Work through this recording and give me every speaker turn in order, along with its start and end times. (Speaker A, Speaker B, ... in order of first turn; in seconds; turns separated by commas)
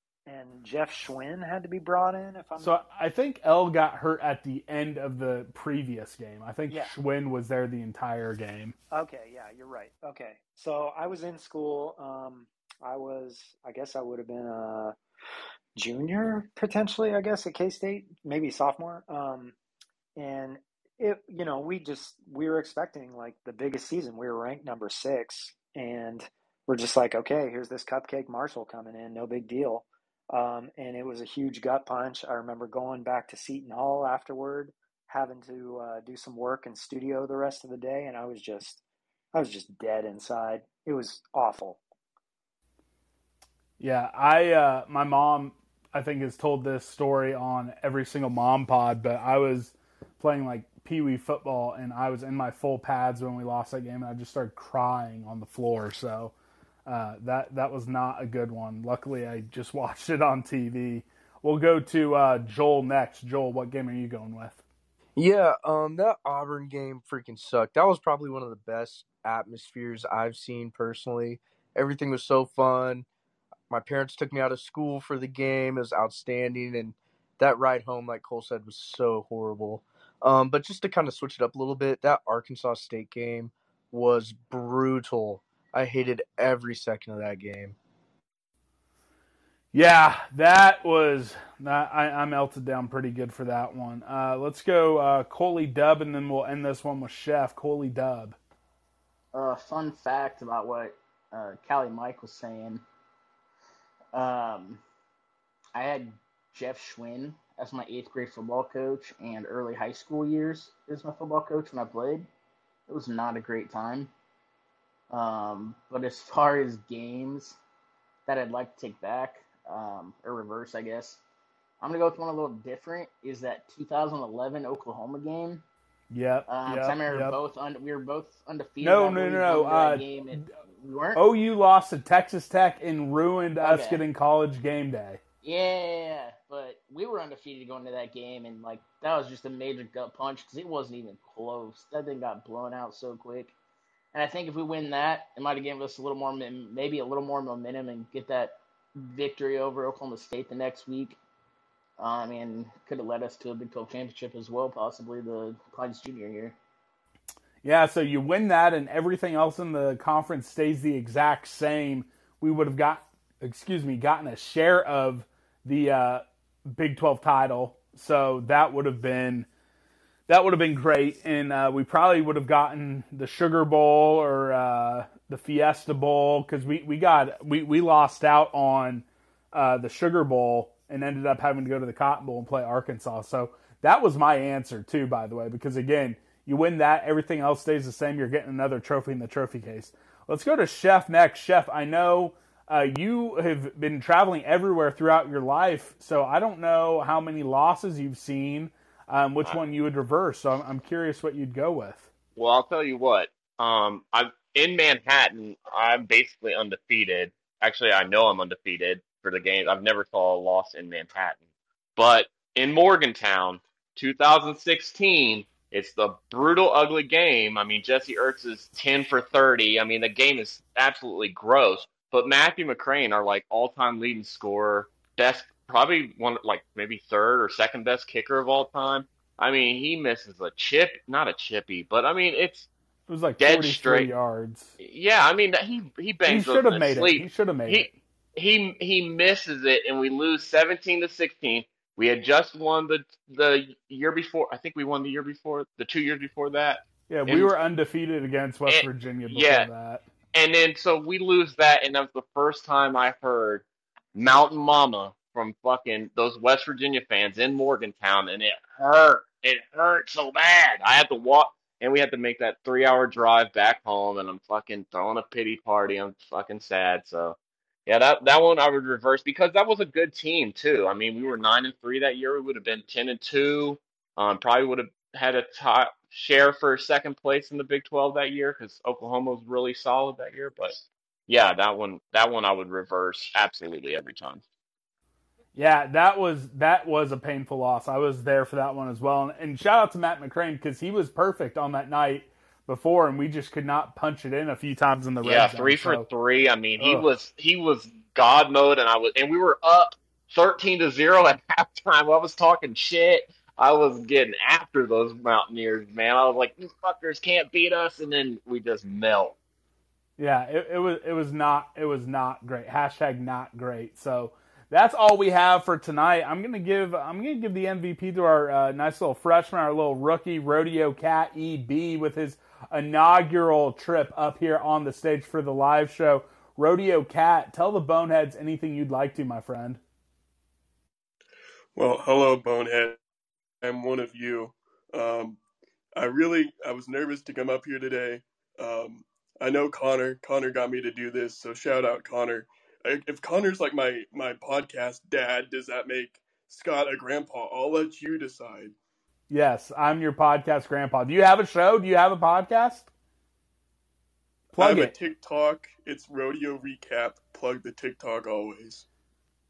Speaker A: 0.3-2.8, Speaker B: 2.6-8.8, Speaker A: 6.7-7.0, Speaker A: 8.9-14.9, Speaker A: 15.8-19.6, Speaker A: 20.2-38.8, Speaker A: 39.3-41.8, Speaker B: 43.8-56.3, Speaker B: 56.9-64.6, Speaker C: 65.2-73.1, Speaker C: 73.7-87.8, Speaker B: 89.7-98.4, Speaker D: 99.3-102.8, Speaker D: 104.1-104.8, Speaker D: 105.8-112.3, Speaker D: 112.9-114.1, Speaker D: 115.1-117.6, Speaker D: 118.3-121.2, Speaker D: 121.8-125.6, Speaker B: 126.1-127.3, Speaker D: 126.5-131.2, Speaker B: 128.8-130.5, Speaker B: 131.2-135.2, Speaker D: 133.6-134.0, Speaker D: 135.4-143.6, Speaker D: 144.1-151.2, Speaker D: 152.0-156.6, Speaker B: 157.6-169.5, Speaker B: 170.3-202.1, Speaker E: 202.4-211.4, Speaker E: 212.0-232.7, Speaker B: 233.1-234.8, Speaker E: 233.4-234.1, Speaker E: 234.8-247.5, Speaker B: 236.3-237.9, Speaker B: 247.1-250.1, Speaker E: 248.7-249.7, Speaker E: 250.3-284.4, Speaker B: 285.6-296.1, Speaker E: 295.2-309.4, Speaker B: 296.8-297.1, Speaker B: 310.2-329.8, Speaker F: 331.8-333.0, Speaker F: 333.6-335.4, Speaker F: 335.9-348.8, Speaker B: 349.3-352.9, Speaker B: 354.5-354.9, Speaker F: 354.6-358.9